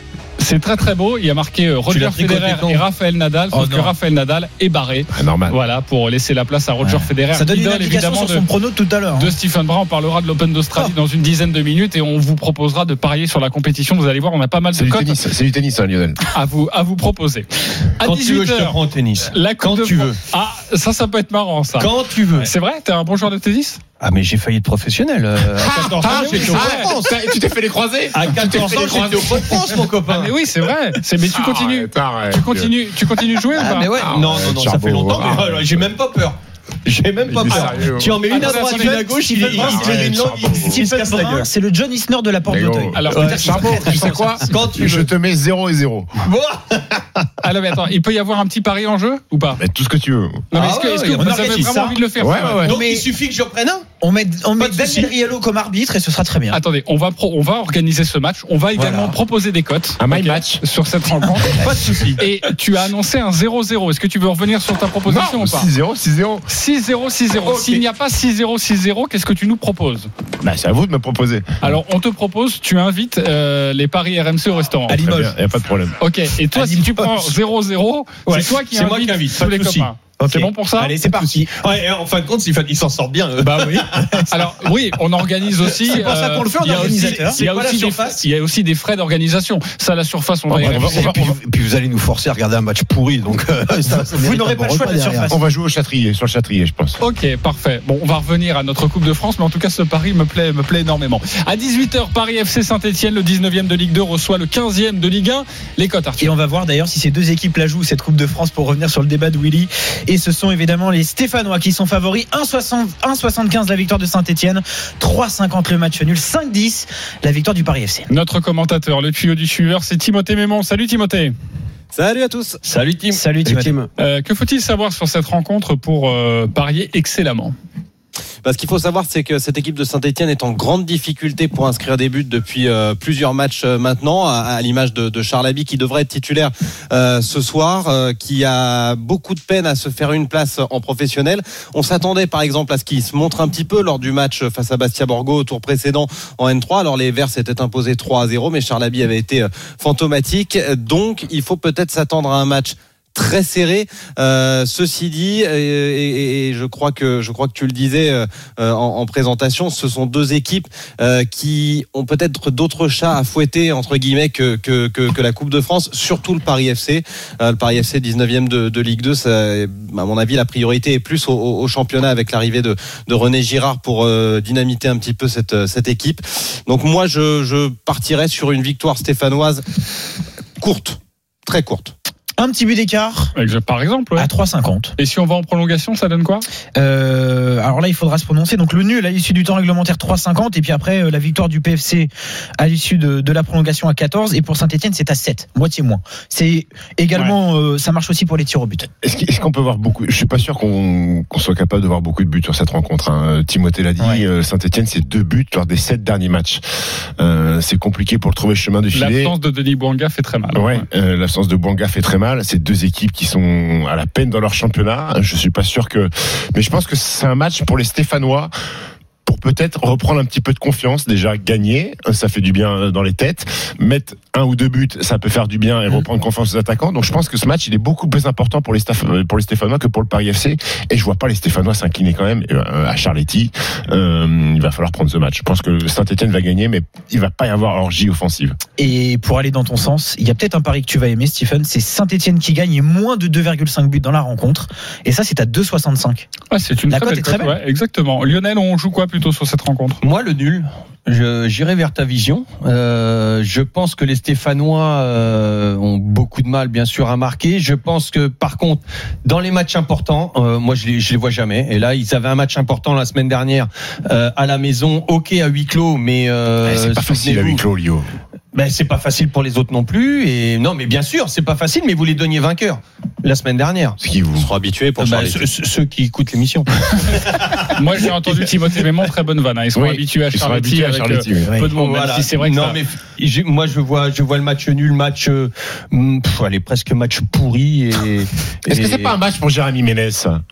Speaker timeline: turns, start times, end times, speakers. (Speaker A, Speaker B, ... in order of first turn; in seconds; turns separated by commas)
Speaker A: 0.4-8.5, Speaker B: 1.9-2.8, Speaker C: 3.5-3.9, Speaker D: 5.1-5.6, Speaker C: 6.8-9.3, Speaker A: 9.2-15.2, Speaker D: 14.7-16.2, Speaker A: 16.3-23.8, Speaker B: 18.0-20.2, Speaker B: 21.8-22.5, Speaker B: 24.0-27.3, Speaker D: 25.6-29.9, Speaker A: 26.0-26.9, Speaker B: 28.1-30.3, Speaker A: 30.1-33.9, Speaker D: 31.3-32.7, Speaker B: 33.6-41.5, Speaker D: 33.8-35.9, Speaker D: 37.2-38.3, Speaker C: 38.3-44.5, Speaker A: 38.3-40.0, Speaker D: 39.6-40.5, Speaker D: 42.5-46.2, Speaker A: 42.9-43.8, Speaker B: 43.1-45.1, Speaker B: 46.2-47.0, Speaker A: 47.4-49.6, Speaker D: 49.6-50.5, Speaker A: 50.5-52.7, Speaker B: 50.5-51.7, Speaker C: 51.2-52.0, Speaker D: 52.2-52.8, Speaker B: 52.6-53.9, Speaker C: 52.7-53.1, Speaker C: 54.0-56.6, Speaker B: 54.6-55.1, Speaker A: 56.5-65.7, Speaker C: 58.8-59.1, Speaker D: 60.0-60.6, Speaker B: 61.6-62.2, Speaker D: 65.1-66.5, Speaker A: 66.5-70.1, Speaker B: 67.3-67.8, Speaker D: 70.4-71.5, Speaker A: 71.6-75.0, Speaker C: 74.9-75.3, Speaker D: 75.0-76.0, Speaker A: 76.0-80.9, Speaker C: 76.6-77.2, Speaker B: 78.3-79.9, Speaker C: 80.2-81.5, Speaker B: 80.8-84.3, Speaker C: 83.4-84.2, Speaker A: 84.3-91.3, Speaker B: 85.7-88.2, Speaker C: 85.9-87.4, Speaker E: 90.5-95.3, Speaker D: 90.6-91.3, Speaker C: 93.9-95.4, Speaker D: 95.3-97.0, Speaker A: 97.0-106.3, Speaker C: 106.2-118.1, Speaker A: 118.1-121.3, Speaker F: 121.9-122.6, Speaker B: 122.6-123.2, Speaker C: 123.1-123.8, Speaker E: 123.4-123.9, Speaker A: 124.0-127.5, Speaker F: 128.4-179.6, Speaker F: 180.6-181.9, Speaker C: 182.4-183.3, Speaker A: 183.3-184.3, Speaker C: 184.2-184.9, Speaker A: 185.0-186.5, Speaker C: 186.8-198.9, Speaker D: 199.0-206.6, Speaker C: 204.0-204.3, Speaker D: 207.2-209.3, Speaker A: 208.9-210.8, Speaker D: 210.5-218.5, Speaker D: 219.3-238.6, Speaker C: 238.8-246.3, Speaker A: 246.5-250.0, Speaker C: 246.9-247.6, Speaker B: 250.0-267.6, Speaker D: 266.6-268.1, Speaker B: 268.5-274.0, Speaker D: 274.0-274.5, Speaker F: 274.4-275.5, Speaker B: 275.0-277.5, Speaker A: 277.7-282.8, Speaker D: 279.8-281.6, Speaker C: 281.5-281.7, Speaker B: 281.7-289.2, Speaker D: 288.7-290.4